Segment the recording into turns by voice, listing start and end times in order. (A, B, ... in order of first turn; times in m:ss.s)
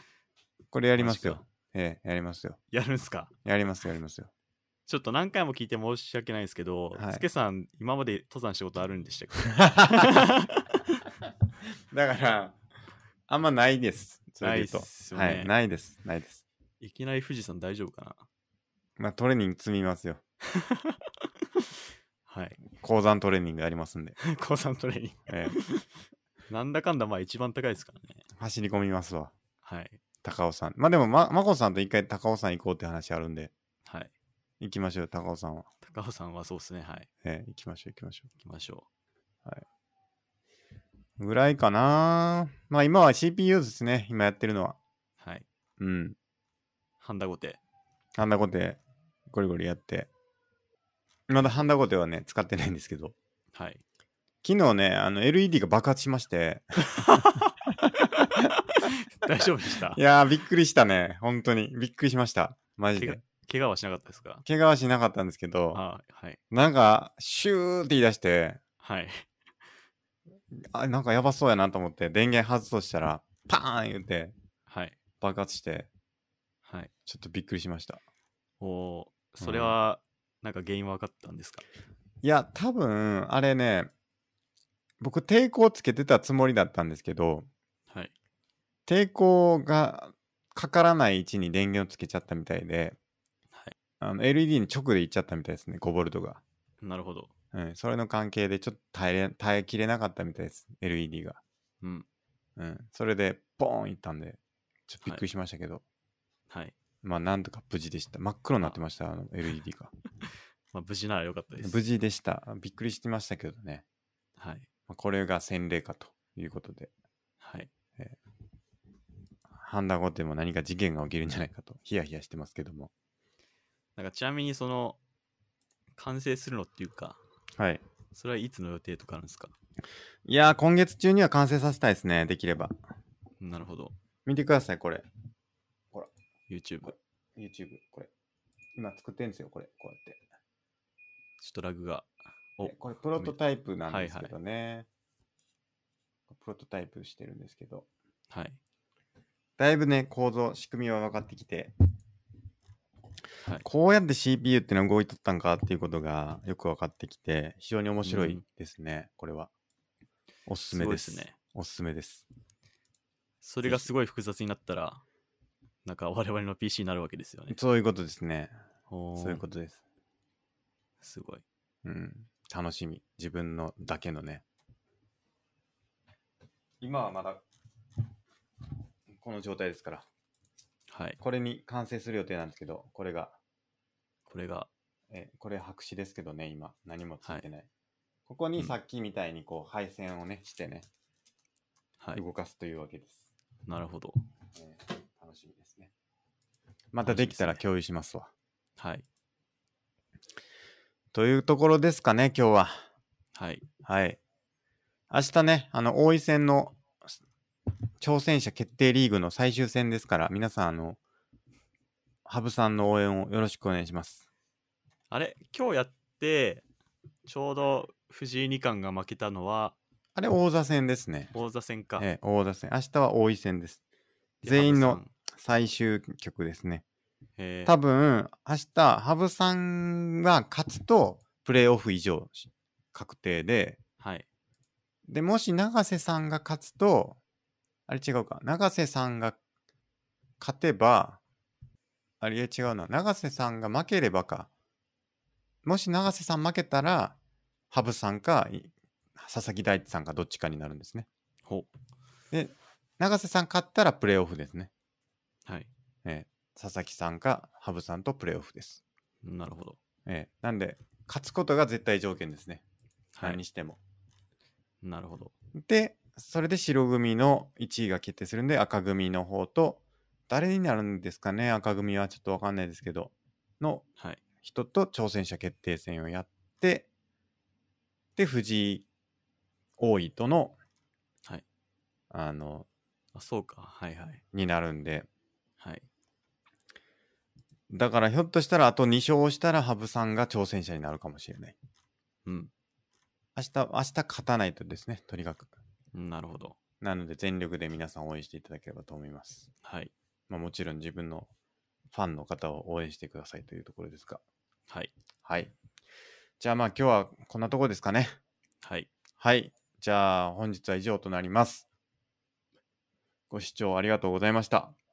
0:00.7-0:02.6 A
0:00.9-0:01.4 B
0:02.7-0:03.3 B
0:03.4-0:04.3 A
0:04.9-0:10.8 B
0:07.0-0:07.2 A
0:09.6-0:10.3 A
0:11.9-0:12.6 A
0:13.3-0:16.4 A
0:14.4-0:15.5 B
0:16.8-0:18.3 B
0:19.0-0:20.2 A
0:20.5-0:21.8 B
0:22.3-0:22.6 B
0:22.7-0:24.2 A
0:24.2-0:25.9 B
0:25.3-0:25.6 A
0:26.5-0:28.2 B
0:28.4-0:29.3 A
0:29.6-0:30.0 B
0:30.2-0:33.5 A
0:33.8-0:34.1 B
0:34.6-0:35.7 A
0:35.8-0:37.1 B
0:37.2-0:38.3 A
0:38.4-0:38.8 B
0:41.2-0:44.8 A
0:45.2-0:45.4 B
0:45.8-0:46.2 A
0:47.0-0:47.6 B
0:48.2-0:50.1 A
0:51.3-0:53.1 A
0:53.5-0:53.8 B
0:54.4-0:58.5 A
0:56.9-1:00.0 B
0:59.9-1:03.2 A
1:03.0-1:04.4 B
1:04.4-1:05.8 A
1:05.7-1:06.4 B
1:06.5-1:08.6 A
1:08.8-1:09.3 B
1:10.5-1:14.3 A
1:14.7-1:15.0 B
1:15.2-1:15.9 A
1:16.6-1:16.9 B
1:17.0-1:18.0 A
1:18.6-1:21.6 B
1:19.4-1:19.7 A
1:22.2-1:23.9 A
1:25.0-1:27.5 A
1:28.9-1:33.0 A
1:34.0-1:36.4 A
1:36.8-1:37.3 B
1:37.5-1:41.4 A
1:41.8-1:42.1 B
1:42.6-1:45.8 A
1:46.5-1:46.7 B
1:47.0-1:49.9 A
1:50.7-1:51.8 B
1:51.6-1:53.8 A
1:54.4-1:54.7 B
1:54.9-1:56.9 A
1:57.4-1:57.7 B
1:59.6-2:02.9 A
2:04.0-2:05.0 B
2:05.9-2:07.2 B
2:07.6-2:07.8 A
2:08.1-2:09.5 B
2:10.3-2:12.7 A
2:13.4-2:13.9 B
2:14.3-2:15.0 A
2:16.5-2:16.9 B
2:16.9-2:18.1 A
2:18.8-2:20.2 A
2:21.4-2:23.4 B
2:22.6-2:24.9 A
2:23.9-2:24.3 B
2:26.3-2:27.9 A
2:28.3-2:28.6 B
2:29.6-2:31.7 A
2:33.6-2:39.5 A
2:38.0-2:38.4 B
2:40.5-2:42.3 A
2:40.7-2:41.4 B
2:43.4-2:45.0 B
2:45.8-2:47.6 B
2:47.5-2:48.5 A
2:48.9-2:49.4 B
2:49.2-2:49.8 A
2:51.0-2:51.4 B
2:51.8-2:54.4 A
2:56.8-2:57.4 A
2:59.2-3:00.0 A
3:00.9-3:01.2 B
3:01.2-3:03.4 A
3:04.3-3:04.7 B
3:05.1-3:07.7 A
3:08.3-3:10.8 A
3:12.1-3:13.2 A
3:13.7-3:14.2 B
3:14.6-3:15.9 A
3:16.9-3:18.3 A
3:17.0-3:17.6 B
3:18.8-3:19.0 B
3:21.1-3:22.8 A
3:23.3-3:23.6 B
3:23.8-3:24.2 A
3:25.1-3:26.8 A
3:28.0-3:31.0 A
3:32.3-3:34.3 A
3:35.1-3:36.6 B
3:37.3-3:39.8 B
3:40.2-3:41.3 A
3:41.3-3:42.0 B
3:42.0-3:43.8 A
3:44.4-3:46.8 A
3:44.4-3:45.1 B
3:47.4-3:47.7 B
3:47.6-3:53.8 A
3:54.0-3:54.3 B
3:55.1-3:57.2 A
3:57.9-3:59.4 A
4:00.4-4:01.2 A
4:02.2-4:04.5 A
4:05.6-4:07.2 A
4:07.7-4:11.1 A
4:11.4-4:11.7 B
4:12.3-4:14.7 A
4:16.0-4:18.8 A
4:19.2-4:19.8 B
4:20.0-4:22.6 A
4:23.1-4:23.4 B
4:23.2-4:23.8 A
4:24.8-4:25.3 B
4:25.6-4:33.8 A
4:34.0-4:34.2 B
4:34.4-4:36.9 A
4:38.2-4:38.8 A
4:39.8-4:40.6 A
4:42.1-4:42.7 A
4:43.1-4:44.2 B
4:44.3-4:45.1 A
4:45.6-4:45.9 B
4:47.7-4:51.6 A
4:52.2-4:52.5 B
4:53.4-4:55.5 A
4:55.9-4:56.6 B
4:56.8-4:59.5 A
4:59.6-4:59.9 B
5:00.3-5:01.3 A
5:01.9-5:04.2 A
5:05.2-5:05.5 A
5:06.4-5:08.2 A
5:08.6-5:08.9 B
5:09.2-5:11.6 A
5:13.3-5:14.8 A